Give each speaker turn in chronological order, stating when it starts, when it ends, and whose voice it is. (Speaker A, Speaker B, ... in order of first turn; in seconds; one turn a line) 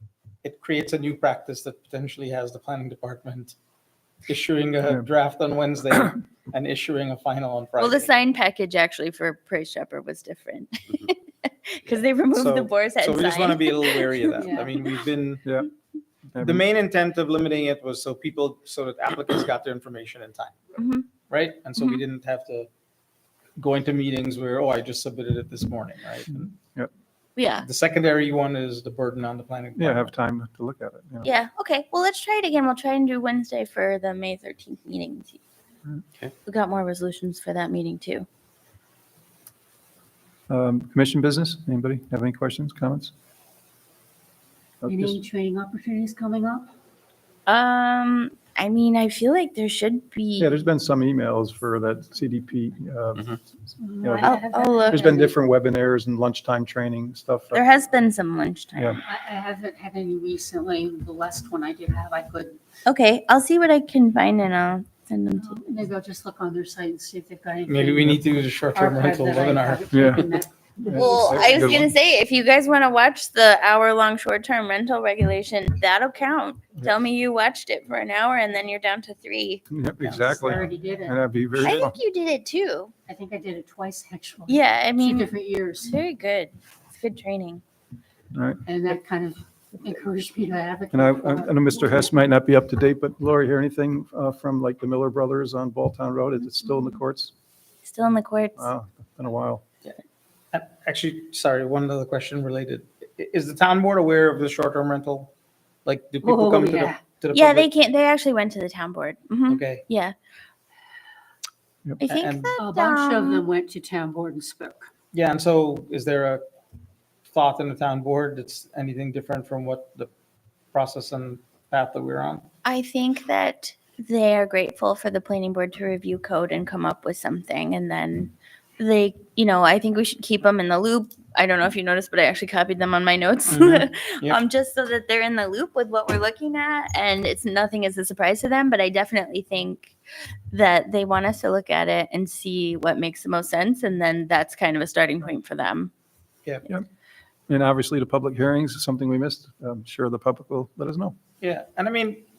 Speaker A: 0.4-3.5
Speaker A: 4.3-8.1
Speaker B: 7.8-14.3
Speaker A: 11.9-15.4
Speaker C: 14.4-14.7
Speaker D: 15.4-15.7
Speaker D: 16.3-16.6
Speaker A: 16.4-20.8
Speaker B: 20.8-21.1
Speaker A: 21.3-22.7
Speaker A: 23.6-26.5
Speaker B: 27.4-27.7
Speaker A: 27.6-30.1
Speaker D: 29.8-31.3
Speaker B: 31.2-35.4
Speaker B: 36.5-38.3
Speaker D: 40.5-43.1
Speaker D: 44.8-45.2
Speaker C: 44.9-46.7
Speaker B: 47.5-50.5
Speaker D: 50.4-53.4
Speaker C: 53.8-55.3
Speaker D: 54.0-57.7
Speaker B: 54.2-55.0
Speaker B: 57.5-59.0
Speaker C: 59.0-62.6
Speaker B: 62.9-65.6
Speaker C: 65.4-71.5
Speaker A: 67.7-70.4
Speaker D: 69.9-70.2
Speaker D: 70.8-71.9
Speaker B: 70.9-79.6
Speaker D: 79.7-82.0
Speaker C: 80.0-81.2
Speaker B: 81.6-82.9
Speaker C: 83.1-85.9
Speaker B: 84.5-85.3
Speaker B: 85.8-87.6
Speaker D: 88.3-88.6
Speaker C: 88.7-92.1
Speaker D: 90.9-97.3
Speaker B: 97.8-98.7
Speaker D: 98.6-99.6
Speaker A: 100.5-105.3
Speaker A: 105.8-107.7
Speaker C: 106.2-107.0
Speaker B: 107.3-110.2
Speaker A: 109.5-109.8
Speaker B: 112.0-113.5
Speaker A: 112.1-112.6
Speaker C: 112.6-114.9
Speaker A: 115.1-116.4
Speaker A: 117.3-120.1
Speaker A: 120.7-122.5
Speaker B: 122.7-139.9
Speaker A: 133.5-134.4
Speaker B: 140.5-145.9
Speaker D: 147.5-151.2
Speaker A: 151.4-152.3